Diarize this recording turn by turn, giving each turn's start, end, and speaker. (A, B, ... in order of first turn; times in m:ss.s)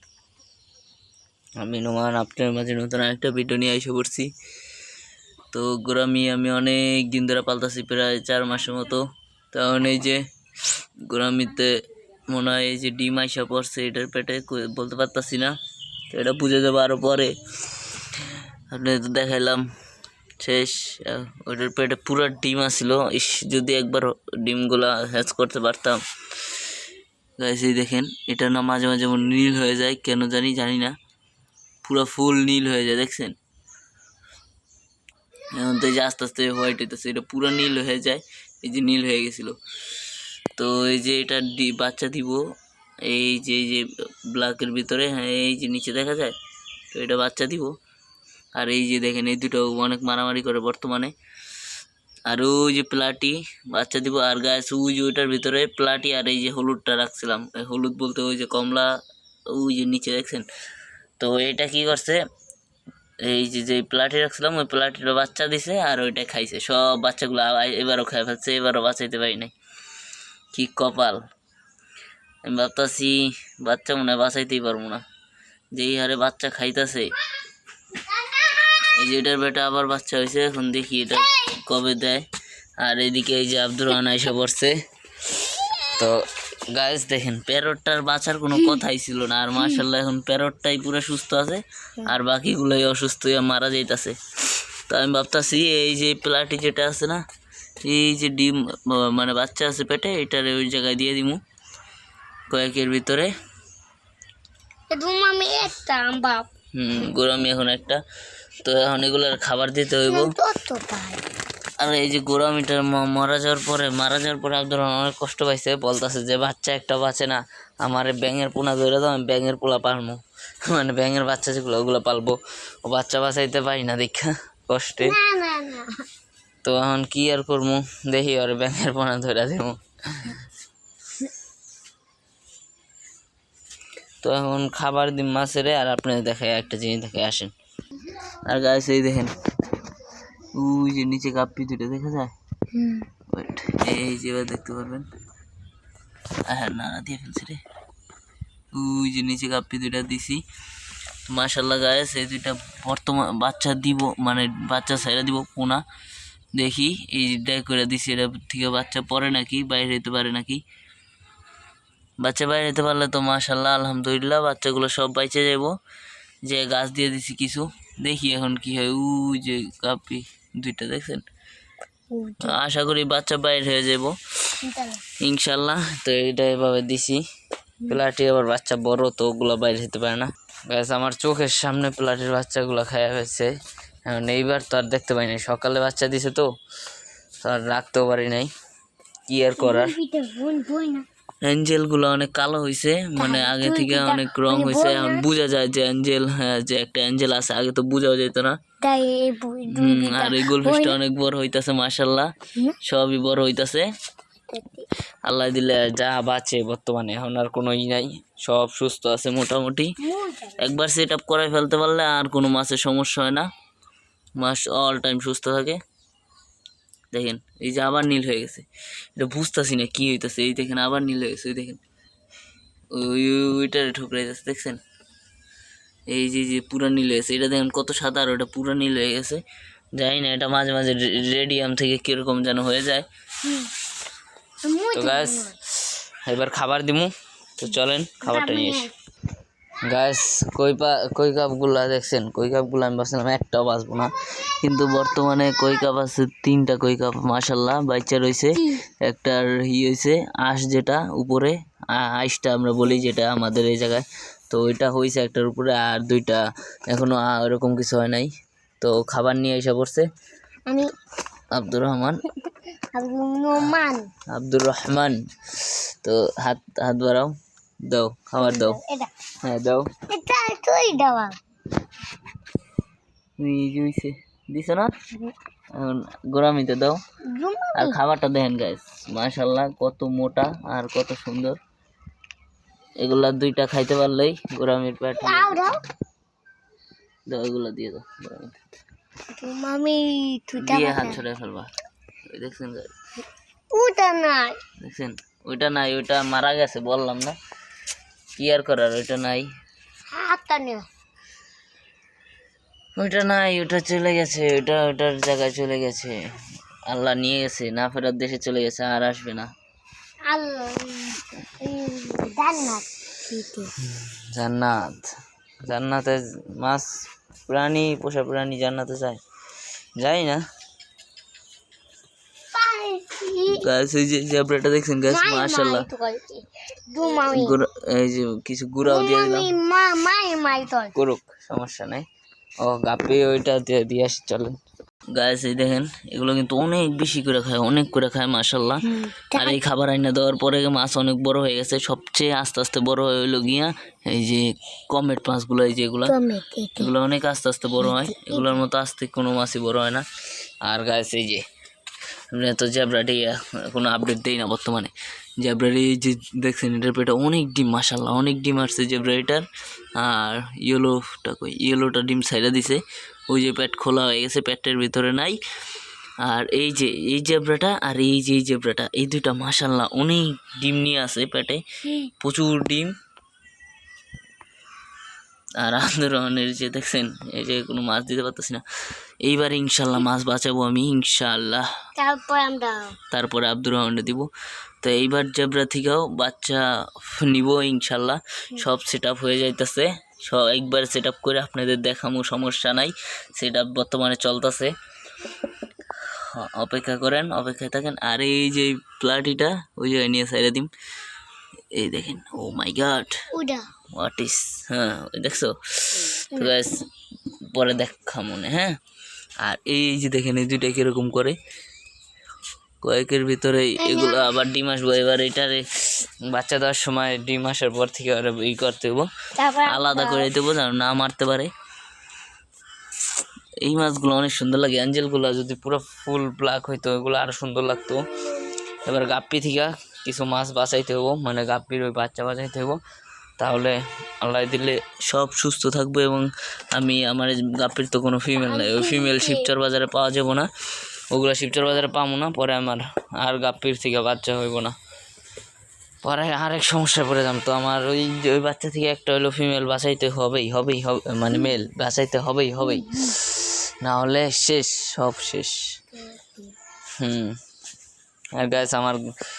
0:01.6-0:04.3 A
0:05.5-0:15.6 A
0:16.1-0:17.9 A
0:18.7-0:19.7 A
0:20.4-0:26.0 A
0:27.4-0:31.0 A
0:31.8-0:33.4 A
0:35.5-0:39.6 A
0:40.6-0:42.4 A
0:43.0-0:46.4 A
0:46.9-0:47.7 A
0:48.6-0:51.1 A
0:52.3-0:58.9 A
0:59.5-1:00.5 A
1:01.2-1:02.2 A
1:03.2-1:09.5 A
1:10.5-1:11.2 A
1:12.4-1:15.0 A
1:15.7-1:17.2 A
1:18.2-1:18.5 B
1:18.8-1:22.3 A
1:22.8-1:24.8 A
1:25.8-1:37.2 A
1:28.6-1:28.8 B
1:29.6-1:29.8 B
1:37.8-1:41.4 A
1:42.5-1:43.3 A
1:44.9-1:46.5 B
1:46.7-1:48.0 A
1:48.6-1:50.3 A
1:50.0-1:51.2 B
1:51.8-2:05.2 A
2:05.0-2:06.0 B
2:06.6-2:10.4 A
2:14.2-2:17.5 A
2:18.5-2:19.4 A
2:20.5-2:22.3 A
2:22.7-2:23.1 B
2:23.3-2:25.1 A
2:26.5-2:27.6 A
2:28.7-2:30.4 A
2:31.3-2:35.8 A
2:36.6-2:40.6 A
2:42.2-2:45.7 A
2:46.5-2:51.2 A
2:52.1-2:52.6 B
2:52.4-2:54.2 A
2:54.6-2:55.0 B
2:55.2-2:57.2 A
2:57.9-3:03.5 A
3:04.1-3:06.5 A
3:07.4-3:08.5 A
3:09.3-3:10.0 A
3:09.6-3:11.1 B
3:11.4-3:18.6 A
3:13.2-3:15.3 B
3:18.8-3:21.0 B
3:19.7-3:23.9 A
3:24.5-3:24.9 B
3:25.2-3:30.0 A
3:30.0-3:30.7 B
3:30.6-3:33.5 A
3:34.4-3:35.8 A
3:37.1-3:41.8 A
3:42.9-3:44.8 A
3:46.1-3:49.4 A
3:50.0-3:53.1 A
3:53.4-3:53.7 B
3:54.6-3:55.6 B
3:54.9-3:58.9 A
3:58.2-3:58.9 B
3:59.8-4:20.1 A
4:21.5-4:22.2 A
4:22.5-4:24.1 B
4:24.3-4:28.8 A
4:28.4-4:29.1 B
4:29.4-4:29.9 A
4:30.1-4:31.4 B
4:33.4-4:34.9 A
4:35.7-4:37.0 A
4:37.3-4:38.0 B
4:37.8-4:41.6 A
4:43.0-4:45.6 A
4:45.2-4:45.8 B
4:47.3-4:48.6 A
4:49.4-4:51.2 B
4:50.6-4:51.7 A
4:52.3-4:52.9 A
4:53.7-4:54.6 B
4:54.8-4:57.4 A
4:58.4-4:59.5 A
5:00.1-5:00.9 B
5:03.0-5:06.2 A
5:06.9-5:09.5 A
5:10.3-5:13.7 B
5:13.8-5:19.2 A
5:20.0-5:20.4 A
5:22.5-5:23.6 B
5:23.5-5:25.9 A
5:25.1-5:27.6 B
5:27.3-5:29.5 A
5:28.8-5:30.9 B
5:31.0-5:32.1 A
5:32.6-5:34.6 A
5:35.1-5:46.2 A
5:38.8-5:39.6 B
5:46.0-5:46.9 B
5:46.8-5:50.0 A
5:47.8-5:48.6 B
5:50.7-5:51.4 A
5:52.3-6:05.4 A
6:06.2-6:11.6 A
6:11.8-6:12.1 B
6:12.2-6:12.9 A
6:15.6-6:18.6 A
6:19.2-6:21.7 A
6:22.0-6:23.0 B
6:23.1-6:24.3 A
6:24.8-6:34.7 A
6:36.1-6:40.7 A
6:41.8-6:43.2 A
6:43.3-6:43.7 B
6:43.9-6:46.9 A
6:47.4-6:48.8 A
6:49.4-6:51.4 A
6:52.8-6:59.1 A
6:53.8-6:54.3 B
6:59.4-7:00.3 B
6:59.6-7:01.5 A
7:03.6-7:08.1 A
7:08.8-7:12.8 A
7:13.4-7:20.5 A
7:18.4-7:19.5 B
7:21.1-7:24.7 A
7:26.0-7:35.6 A
7:32.6-7:33.2 B
7:36.0-7:36.5 B
7:37.0-7:37.4 A
7:38.4-7:39.1 A